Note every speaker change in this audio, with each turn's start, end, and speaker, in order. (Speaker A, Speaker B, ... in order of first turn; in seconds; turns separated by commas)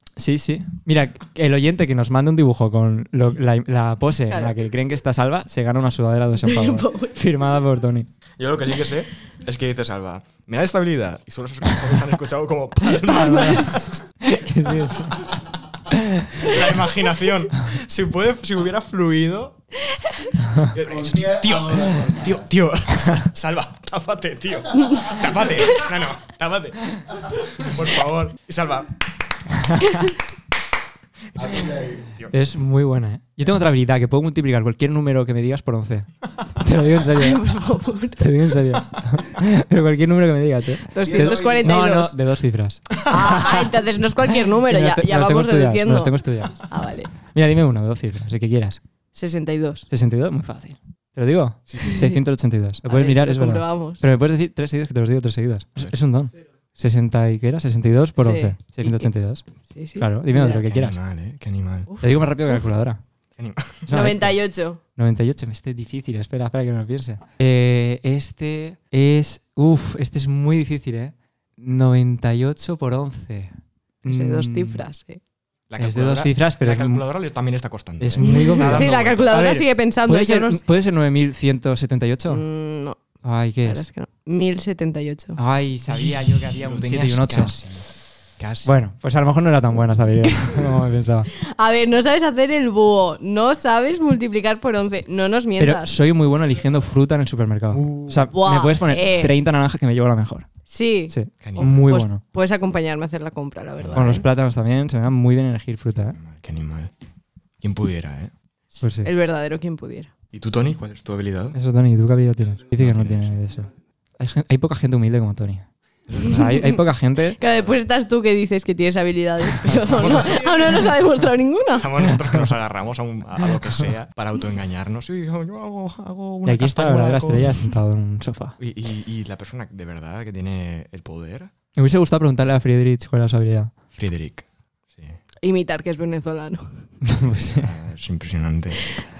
Speaker A: 0.2-8.1, Speaker B: 4.3-4.5, Speaker B: 6.4-7.2, Speaker C: 8.4-13.8, Speaker B: 13.0-14.0, Speaker A: 13.1-13.7, Speaker A: 14.2-15.4, Speaker A: 15.9-16.3, Speaker C: 16.3-19.6, Speaker C: 20.7-28.9, Speaker D: 20.8-22.5, Speaker A: 29.6-29.9, Speaker D: 31.3-32.1, Speaker A: 32.3-36.1, Speaker A: 36.6-37.4, Speaker B: 37.1-38.3, Speaker A: 38.2-43.7, Speaker B: 40.9-42.2, Speaker D: 41.0-41.7, Speaker B: 43.0-47.1, Speaker A: 44.7-46.6, Speaker A: 47.3-48.8, Speaker B: 49.1-49.9, Speaker A: 49.9-59.4, Speaker C: 51.7-52.0, Speaker B: 51.8-52.2, Speaker B: 52.8-54.0, Speaker B: 58.2-60.6, Speaker A: 60.0-61.0, Speaker C: 60.5-62.1, Speaker B: 61.9-62.6, Speaker A: 62.0-63.0, Speaker C: 63.4-64.1, Speaker A: 63.9-74.8, Speaker B: 63.9-64.8, Speaker B: 74.0-75.2, Speaker C: 75.7-79.4, Speaker A: 75.8-77.0, Speaker A: 78.0-82.4, Speaker B: 78.2-80.6, Speaker B: 82.3-85.4, Speaker A: 83.2-83.8, Speaker A: 85.4-87.6, Speaker C: 85.9-88.8, Speaker A: 88.6-91.3, Speaker B: 91.5-95.9, Speaker A: 95.6-100.5, Speaker C: 97.7-98.3, Speaker B: 98.3-99.3, Speaker B: 100.7-104.3, Speaker A: 101.1-102.2, Speaker C: 101.4-101.8, Speaker C: 103.8-104.2, Speaker A: 103.9-106.2, Speaker C: 106.0-106.9, Speaker C: 107.6-108.3, Speaker A: 108.8-109.1, Speaker B: 109.0-110.1, Speaker C: 110.3-111.6, Speaker A: 111.5-115.7, Speaker C: 112.7-113.4, Speaker B: 116.2-116.8, Speaker A: 116.2-117.4, Speaker B: 117.4-121.9, Speaker C: 119.9-120.9, Speaker C: 121.7-127.7, Speaker A: 122.2-122.5, Speaker A: 126.4-128.6, Speaker C: 128.6-131.5, Speaker A: 131.8-133.7, Speaker C: 133.9-135.2, Speaker B: 135.4-136.9, Speaker A: 137.0-137.7, Speaker C: 137.5-139.0